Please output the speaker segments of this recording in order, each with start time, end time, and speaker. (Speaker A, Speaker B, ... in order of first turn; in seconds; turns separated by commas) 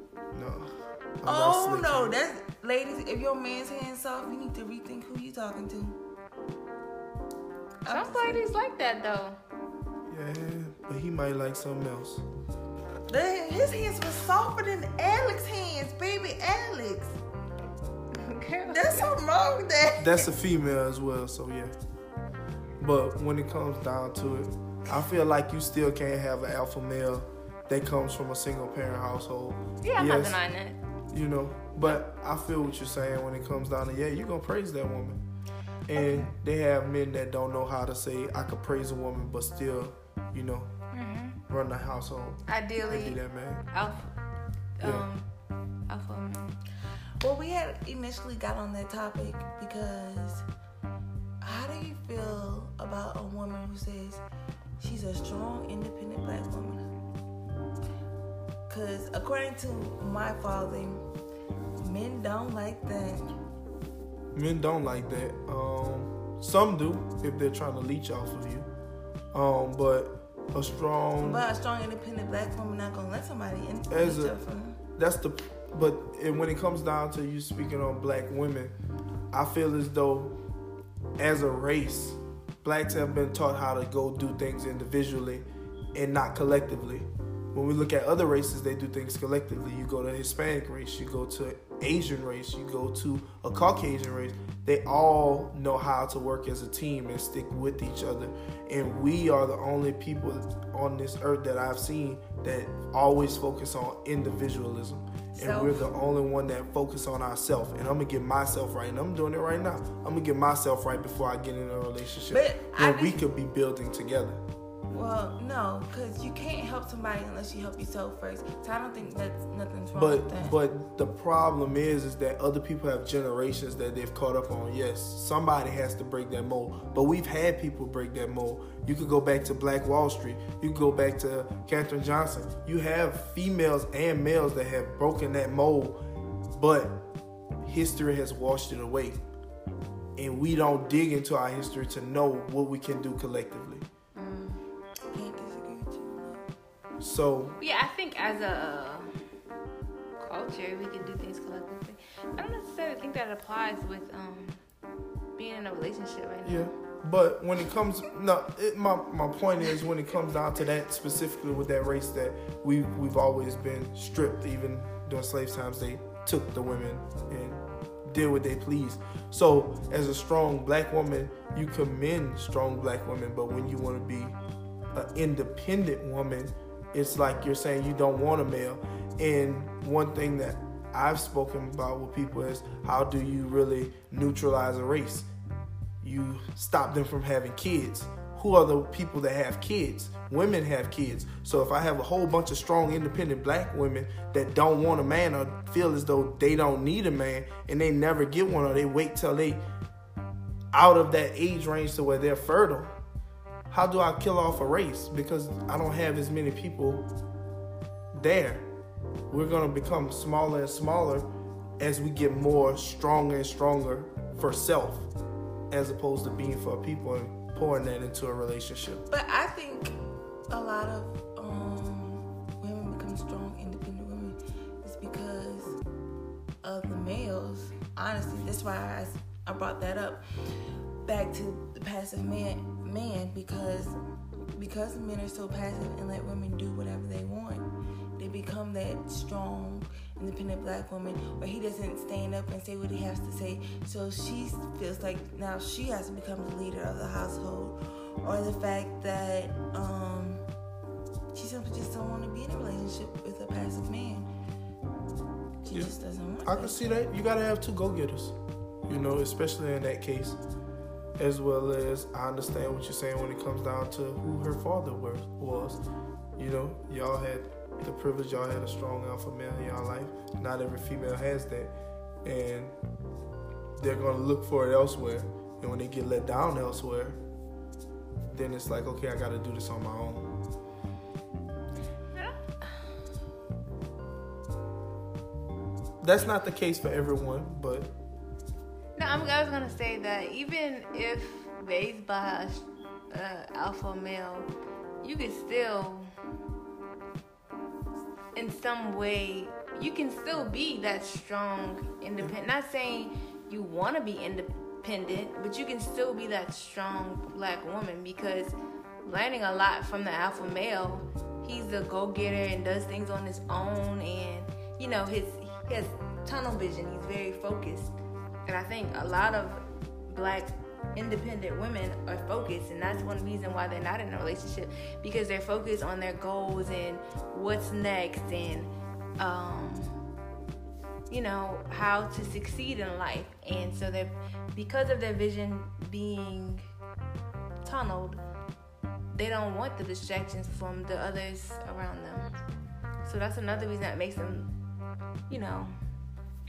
Speaker A: 0.3-2.2, Speaker B: 1.3-6.0, Speaker C: 7.8-9.4, Speaker B: 7.9-8.4, Speaker A: 10.1-12.2, Speaker B: 13.1-17.2, Speaker C: 18.1-19.1, Speaker B: 18.7-20.3, Speaker A: 20.0-21.7, Speaker A: 22.8-30.4, Speaker C: 29.8-30.8, Speaker A: 31.1-35.2, Speaker A: 35.9-40.7, Speaker B: 36.0-36.3, Speaker C: 40.9-41.4, Speaker A: 41.5-43.7, Speaker C: 42.5-43.2, Speaker C: 43.7-44.1, Speaker C: 44.8-45.3, Speaker A: 44.8-45.1, Speaker C: 45.9-46.6, Speaker B: 47.2-50.5, Speaker B: 51.4-54.2, Speaker B: 54.8-56.9, Speaker B: 58.7-61.1, Speaker B: 61.8-63.4, Speaker A: 64.3-68.7, Speaker A: 69.3-71.5, Speaker B: 71.2-74.8, Speaker A: 73.9-74.4, Speaker A: 75.0-78.7, Speaker A: 79.3-80.4, Speaker A: 81.2-114.4, Speaker B: 105.4-105.8, Speaker B: 112.3-113.2, Speaker B: 114.9-120.6, Speaker A: 120.0-136.0, Speaker A: 136.5-137.1, Speaker A: 137.6-139.2, Speaker A: 140.2-143.9, Speaker C: 144.2-144.6, Speaker B: 145.1-146.5, Speaker A: 147.0-147.6, Speaker C: 147.6-149.1, Speaker C: 150.2-154.6, Speaker C: 155.4-156.7, Speaker A: 156.5-174.4, Speaker A: 174.9-185.3, Speaker A: 186.0-199.6, Speaker A: 200.7-202.9, Speaker A: 203.7-207.1, Speaker A: 208.1-208.7, Speaker A: 209.3-215.1, Speaker A: 215.7-219.1, Speaker B: 219.1-220.0, Speaker B: 220.5-225.8, Speaker B: 226.6-234.0, Speaker B: 234.6-237.7, Speaker B: 238.2-250.4, Speaker B: 251.3-254.3, Speaker B: 255.6-256.9, Speaker A: 256.4-260.4, Speaker A: 261.2-265.8, Speaker A: 266.4-271.7, Speaker A: 272.2-272.8, Speaker A: 273.8-277.2, Speaker A: 278.3-280.3, Speaker C: 282.1-282.8, Speaker A: 286.0-287.9, Speaker C: 289.0-294.5, Speaker C: 295.0-296.1, Speaker C: 298.4-317.9, Speaker C: 318.5-330.0, Speaker C: 331.1-336.6, Speaker C: 337.6-338.2, Speaker C: 339.1-342.3, Speaker C: 343.0-344.5, Speaker C: 345.3-345.8